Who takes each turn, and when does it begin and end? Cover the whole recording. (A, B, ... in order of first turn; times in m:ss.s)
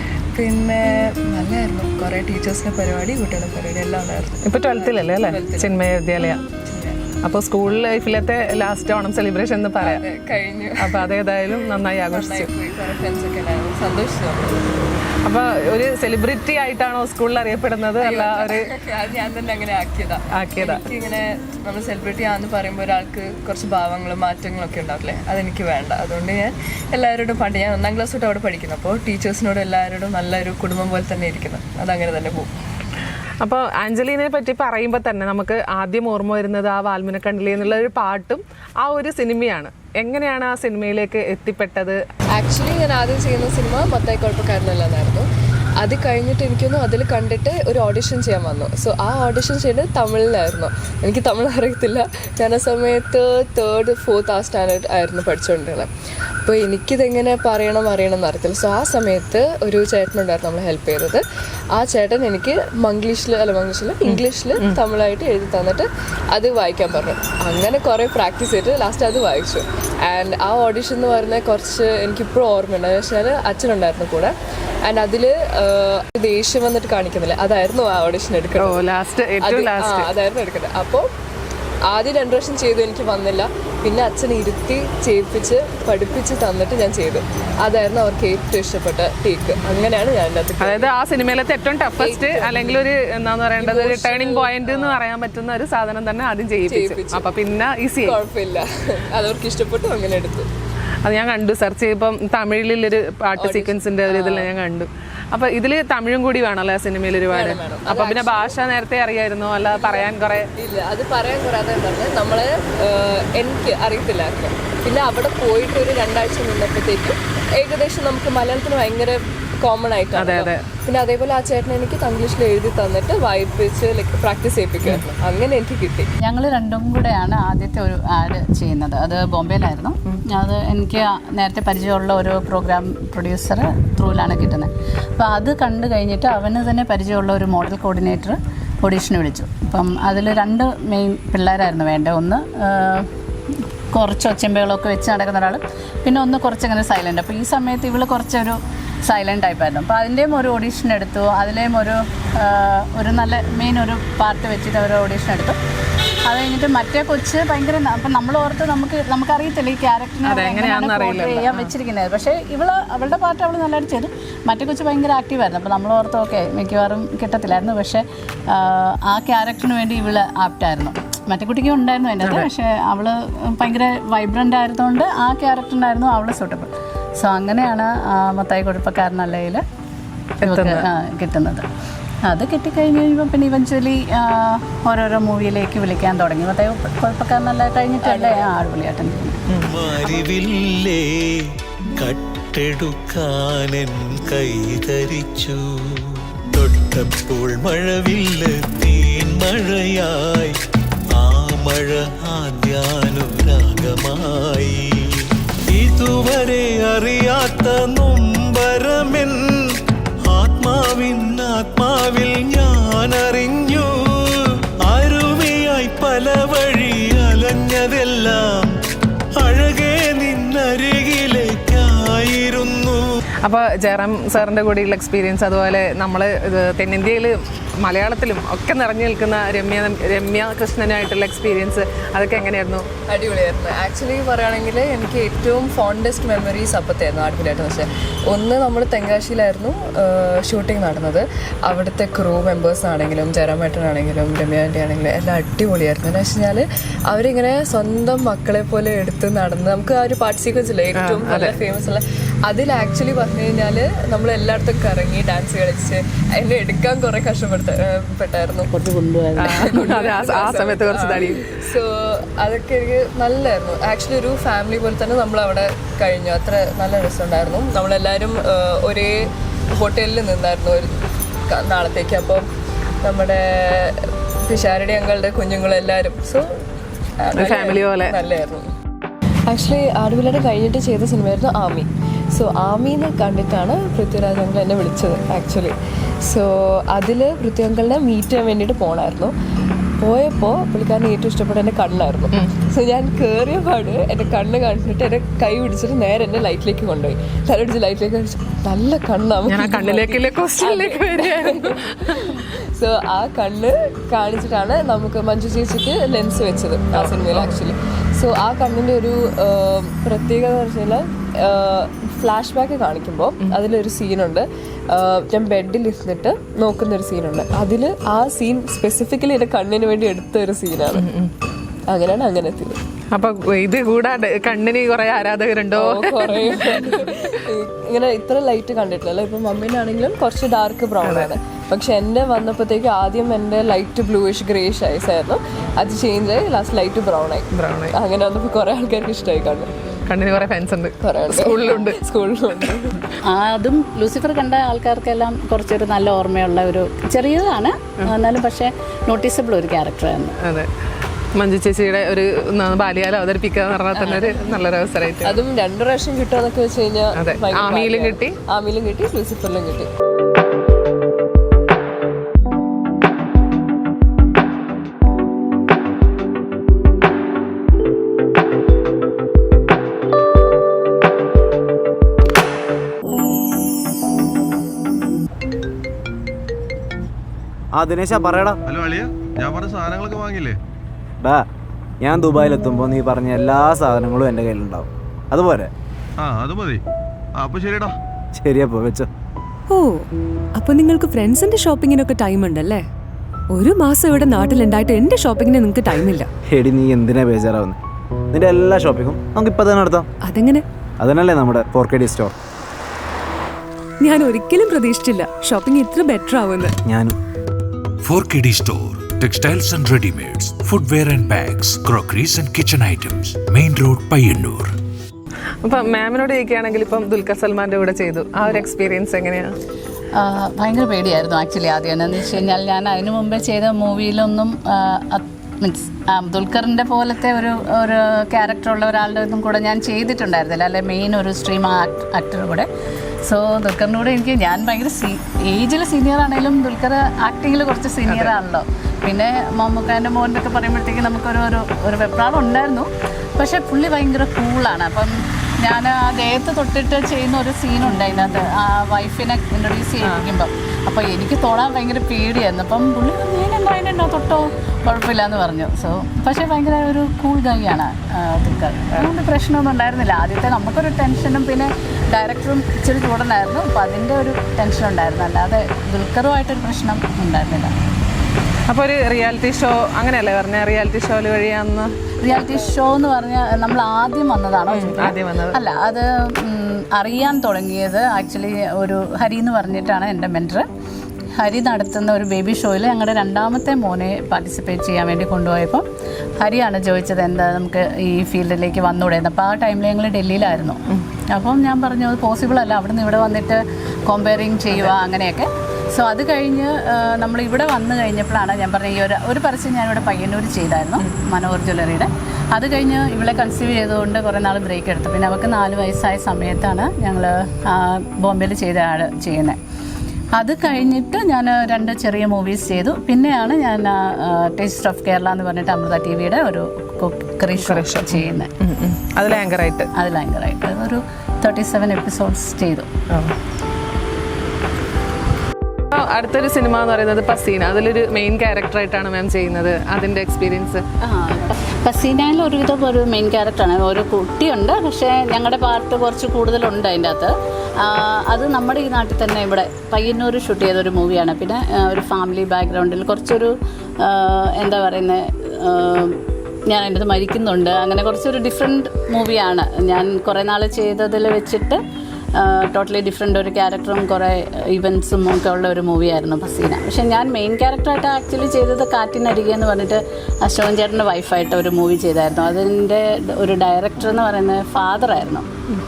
0:00.3-0:05.9 A
0:04.4-0:06.4 B
0:06.6-0:07.0 A
0:07.2-0:10.0 B
0:09.8-0:14.6 A
0:10.8-0:12.5 B
0:15.3-0:18.7 B
0:18.0-0:32.5 A
0:20.3-0:20.8 B
0:33.4-0:42.0 B
0:42.3-0:45.3 A
0:45.8-0:55.9 A
0:56.4-1:01.2 A
1:01.7-1:18.9 A
1:04.1-1:04.8 B
1:18.6-1:20.1 B
1:19.4-1:21.1 A
1:21.9-1:30.9 A
1:30.6-1:38.2 B
1:32.0-1:32.9 A
1:33.6-1:35.0 A
1:36.7-1:37.4 A
1:38.0-1:40.5 A
1:41.0-1:50.5 B
1:43.4-1:44.5 A
1:47.3-1:48.6 A
1:49.7-2:06.1 A
2:00.2-2:00.6 B
2:06.2-2:23.1 C
2:23.9-2:35.6 C
2:36.3-2:59.6 C
2:40.2-2:41.7 B
3:00.4-3:00.8 B
3:00.4-3:01.6 C
3:02.3-3:09.4 C
3:08.0-3:08.5 A
3:09.7-3:20.6 D
3:21.1-3:29.7 D
3:30.3-3:38.7 D
3:39.4-3:43.0 D
3:43.4-3:52.9 B
3:53.1-4:18.7 A
4:11.0-4:11.6 B
4:18.7-4:19.7 C
4:19.4-4:21.5 B
4:19.5-4:32.4 A
4:33.0-4:36.5 A
4:37.2-4:38.7 A
4:37.3-4:38.2 B
4:39.5-4:49.3 A
4:50.0-5:21.1 A
4:59.5-5:02.4 B
5:06.9-5:07.6 B
5:20.9-5:21.3 B
5:21.9-5:22.8 A
5:23.1-5:27.1 B
5:25.7-5:39.9 A
5:31.0-5:31.3 B
5:37.5-5:37.9 B
5:40.1-5:42.0 B
5:41.0-5:42.9 A
5:43.3-5:50.3 C
5:50.4-5:50.7 B
5:51.4-5:55.4 B
5:54.0-5:54.4 A
5:55.2-5:59.9 A
5:57.2-5:58.4 B
6:17.8-6:18.6 E
6:18.7-6:20.6 F
6:22.0-6:25.7 E
6:26.2-6:26.8 F
6:27.4-6:27.9 F
6:28.4-6:29.1 E
6:30.6-6:32.8 G
6:33.5-6:36.3 G
6:36.5-6:37.8 E
6:38.3-6:40.0 E
6:40.3-6:40.6 G
6:41.0-6:42.3 E
6:44.0-6:46.7 G
6:46.9-6:47.1 E
6:48.0-6:54.7 H
6:55.6-6:59.5 B
7:00.2-7:12.7 C
7:13.3-7:47.7 C
7:48.7-7:51.9 B
7:52.2-8:00.6 C
7:54.7-7:55.6 B
8:01.4-8:05.8 C
8:06.4-8:10.8 C
8:11.3-8:29.6 C
8:30.4-8:38.5 C
8:37.6-8:39.9 B
8:40.0-8:42.9 C
8:45.9-8:50.8 B
8:51.1-9:03.5 C
9:04.0-9:06.2 C
9:06.7-9:11.8 C
9:12.4-9:25.5 C